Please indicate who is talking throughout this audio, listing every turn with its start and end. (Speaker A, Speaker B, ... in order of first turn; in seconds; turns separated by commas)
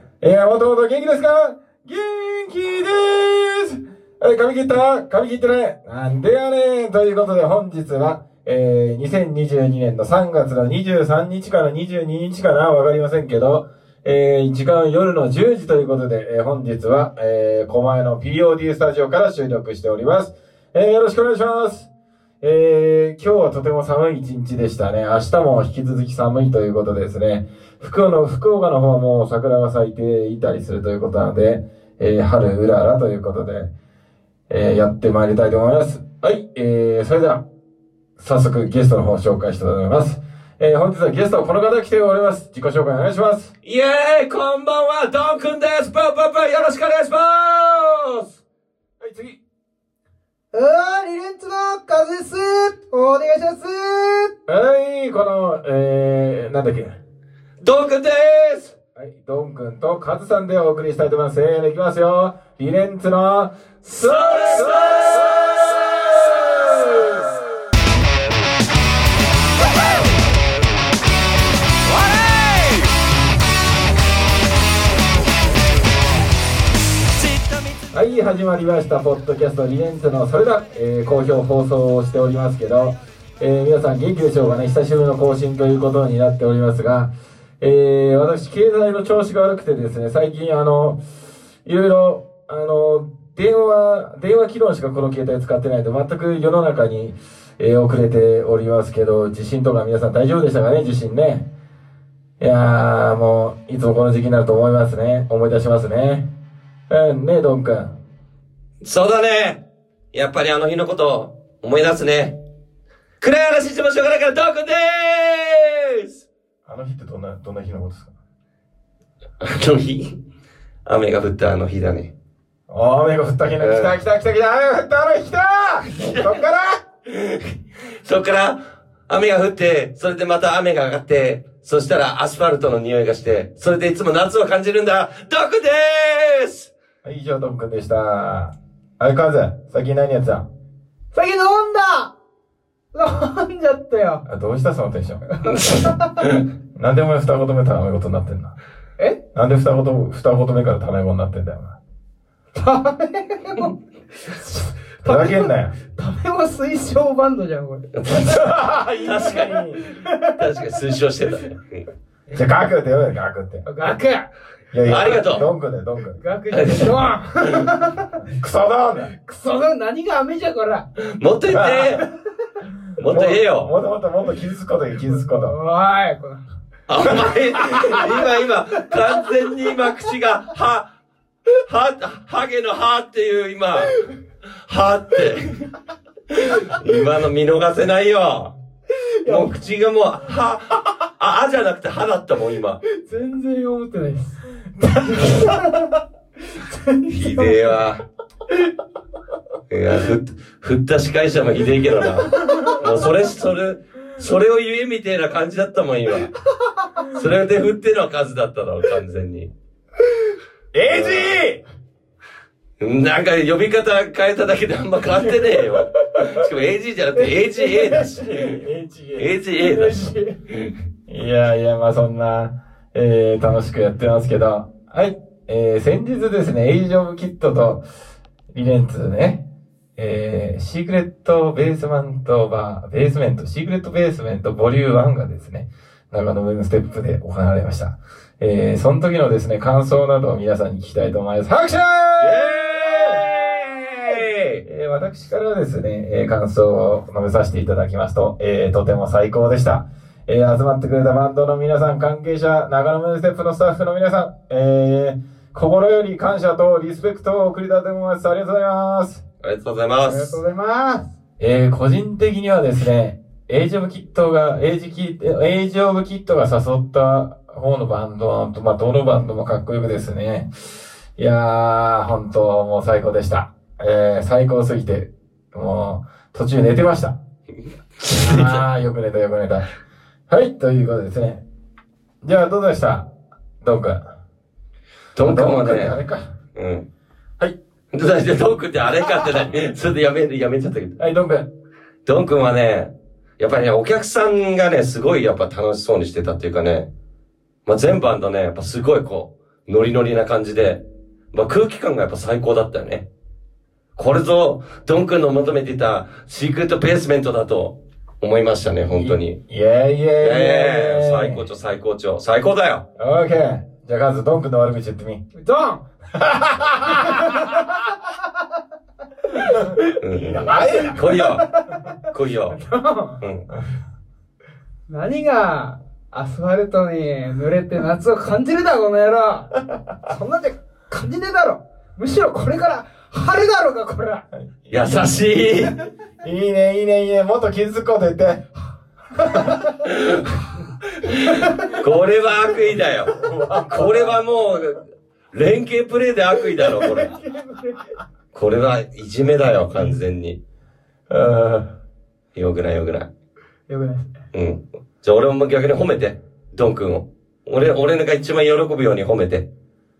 Speaker A: 0.2-21.9, Speaker A: 22.4-33.7, Speaker A: 34.5-37.4, Speaker A: 38.2-43.5, Speaker B: 43.6-48.4, Speaker A: 49.0-49.4, Speaker C: 50.5-54.3, Speaker A: 54.5-57.0, Speaker B: 57.6-58.7, Speaker A: 59.0-65.9, Speaker B: 63.8-67.3, Speaker A: 66.7-67.1, Speaker B: 71.8-72.9, Speaker B: 77.2-77.8, Speaker A: 77.9-91.0, Speaker A: 91.6-101.5, Speaker A: 102.4-106.3, Speaker A: 106.9-107.9, Speaker B: 108.8-109.6, Speaker B: 110.1-112.3, Speaker B: 113.2-116.2, Speaker A: 116.7-118.1, Speaker B: 119.4-120.2, Speaker B: 120.8-122.1, Speaker A: 122.7-126.8, Speaker B: 123.6-124.0, Speaker B: 125.9-126.3, Speaker B: 127.0-136.7, Speaker A: 137.0-140.5, Speaker C: 141.1-142.1, Speaker C: 142.9-144.2, Speaker A: 144.2-145.3, Speaker C: 145.3-146.2, Speaker B: 145.4-146.4, Speaker A: 146.7-148.5, Speaker A: 149.3-151.7, Speaker C: 152.5-157.8, Speaker A: 155.0-155.7, Speaker B: 157.9-159.7, Speaker A: 158.1-159.8, Speaker C: 159.8-160.4, Speaker B: 160.2-161.8, Speaker A: 162.3-163.6, Speaker C: 163.7-164.3, Speaker A: 164.7-166.2, Speaker B: 164.8-165.4, Speaker C: 166.2-168.2, Speaker B: 166.5-166.9, Speaker A: 168.2-169.1, Speaker C: 169.2-170.8, Speaker B: 171.0-172.0, Speaker A: 171.5-172.0, Speaker B: 173.0-173.7, Speaker A: 173.1-175.5, Speaker C: 175.1-176.4, Speaker B: 176.9-180.9, Speaker B: 181.5-184.0, Speaker B: 184.7-185.7, Speaker B: 186.3-188.5, Speaker C: 188.9-189.5, Speaker B: 189.2-192.8, Speaker C: 192.8-195.8, Speaker A: 194.8-195.7, Speaker C: 196.5-197.8, Speaker B: 197.1-198.0, Speaker B: 199.7-206.3, Speaker C: 202.3-202.8, Speaker B: 207.1-209.5, Speaker A: 210.7-211.6, Speaker B: 210.9-211.4, Speaker B: 212.8-218.6, Speaker C: 215.3-216.4, Speaker C: 217.2-218.1, Speaker A: 218.2-219.3, Speaker B: 219.2-220.7, Speaker C: 219.5-220.3, Speaker A: 221.1-227.8, Speaker A: 228.5-229.4, Speaker A: 230.0-243.2, Speaker B: 242.2-244.6, Speaker A: 244.6-259.2, Speaker B: 259.4-260.4, Speaker C: 260.1-261.1, Speaker A: 261.4-270.5, Speaker A: 271.2-277.1, Speaker B: 278.0-278.6, Speaker A: 278.1-279.7, Speaker A: 280.3-281.4, Speaker A: 282.2-283.1, Speaker A: 283.6-284.0, Speaker B: 285.1-286.0, Speaker A: 285.2-286.3, Speaker B: 286.5-286.8, Speaker B: 287.9-290.9, Speaker A: 291.0-291.5, Speaker B: 292.0-296.9, Speaker B: 297.6-303.1, Speaker B: 303.9-309.4, Speaker A: 308.9-311.4, Speaker B: 310.2-312.8, Speaker A: 313.0-315.2, Speaker C: 315.3-315.8, Speaker A: 316.1-317.6, Speaker C: 317.0-318.1, Speaker C: 319.3-321.9, Speaker A: 319.4-321.0, Speaker B: 320.0-321.5, Speaker B: 322.1-322.6, Speaker C: 322.5-323.2, Speaker B: 323.2-323.4, Speaker C: 324.9-329.5, Speaker C: 330.0-334.2, Speaker B: 334.7-335.7, Speaker A: 336.2-338.4, Speaker A: 339.2-339.7, Speaker B: 339.8-340.4, Speaker B: 341.0-343.2, Speaker C: 341.4-341.7, Speaker A: 343.1-344.2, Speaker B: 343.7-344.8, Speaker B: 345.3-347.1, Speaker C: 346.6-347.9, Speaker B: 348.3-350.4, Speaker A: 351.1-351.7, Speaker B: 352.3-353.1, Speaker C: 353.7-354.2, Speaker B: 354.3-359.5